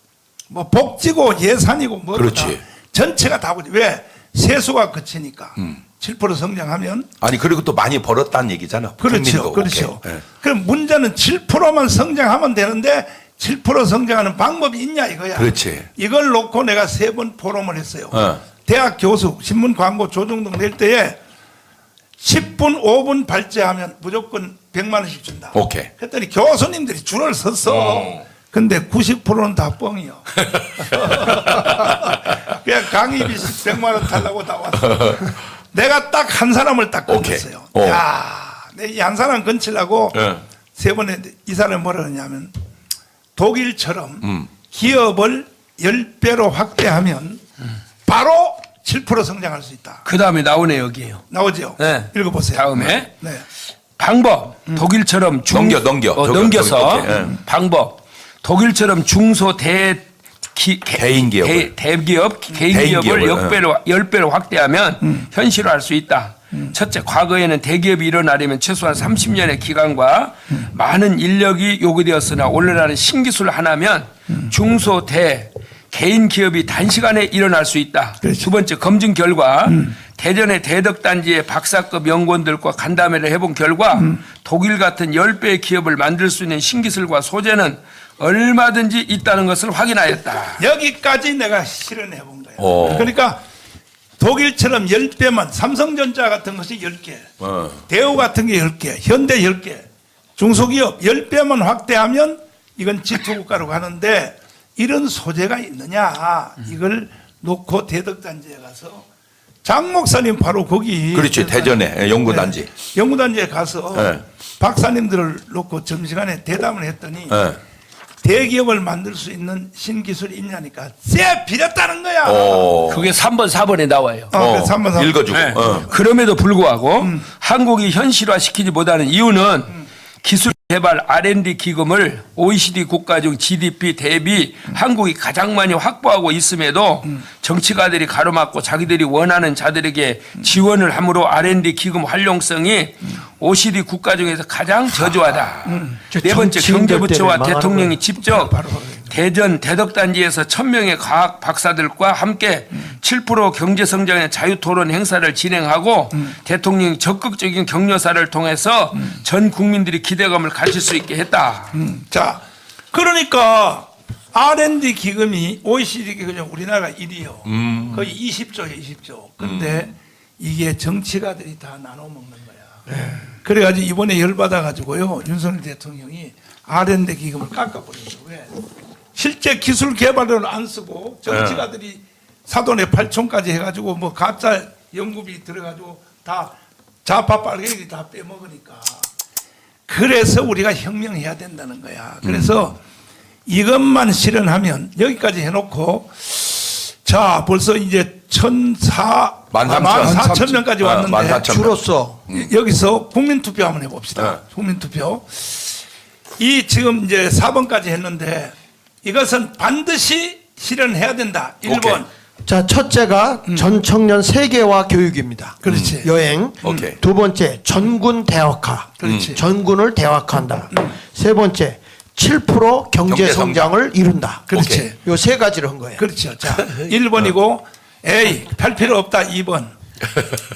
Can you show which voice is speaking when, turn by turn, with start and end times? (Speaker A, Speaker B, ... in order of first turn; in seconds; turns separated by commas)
Speaker A: 0.5-7.1, Speaker B: 2.1-2.6, Speaker B: 7.2-10.2, Speaker A: 9.0-21.2, Speaker B: 15.4-15.9, Speaker B: 18.1-18.4, Speaker A: 22.2-40.2, Speaker B: 25.5-25.9, Speaker B: 30.5-32.2, Speaker B: 34.8-35.3, Speaker B: 37.1-38.0, Speaker B: 40.1-40.4, Speaker A: 40.8-42.5, Speaker A: 43.4-47.4, Speaker B: 44.2-44.5, Speaker A: 48.0-50.0, Speaker C: 50.0-51.2, Speaker A: 51.3-53.4, Speaker C: 51.8-53.1, Speaker C: 54.0-90.6, Speaker B: 55.5-57.4, Speaker B: 61.0-61.7, Speaker B: 62.7-63.6, Speaker A: 78.2-78.5, Speaker A: 90.6-93.4, Speaker B: 92.6-93.1, Speaker A: 94.2-97.3, Speaker B: 97.4-97.8, Speaker A: 97.9-99.8, Speaker A: 100.4-109.1, Speaker A: 109.6-117.4, Speaker B: 111.1-112.7, Speaker B: 113.9-114.2, Speaker B: 117.3-117.6, Speaker A: 118.2-122.8, Speaker B: 122.2-123.1, Speaker C: 122.9-124.3, Speaker A: 124.3-126.0, Speaker B: 124.3-125.9, Speaker C: 125.3-161.8, Speaker A: 127.0-127.2, Speaker A: 145.7-146.0, Speaker D: 146.1-148.3, Speaker A: 148.3-149.0, Speaker A: 161.7-172.8, Speaker B: 167.5-168.0, Speaker B: 169.4-169.8, Speaker A: 173.3-178.6, Speaker A: 179.2-189.1, Speaker B: 181.3-181.6, Speaker A: 189.9-192.8, Speaker B: 192.2-192.7, Speaker A: 193.5-201.5, Speaker B: 199.5-202.5, Speaker D: 199.8-200.5, Speaker D: 201.3-202.2, Speaker A: 202.3-205.8, Speaker B: 204.2-204.4, Speaker A: 206.4-212.1, Speaker B: 211.7-212.0, Speaker D: 212.5-226.1, Speaker A: 215.6-216.1, Speaker B: 215.7-216.0, Speaker B: 216.6-217.0, Speaker A: 216.7-216.9, Speaker A: 219.0-219.4, Speaker B: 219.1-219.4, Speaker B: 223.1-223.7, Speaker A: 224.5-225.0, Speaker B: 224.5-224.9, Speaker A: 226.0-229.7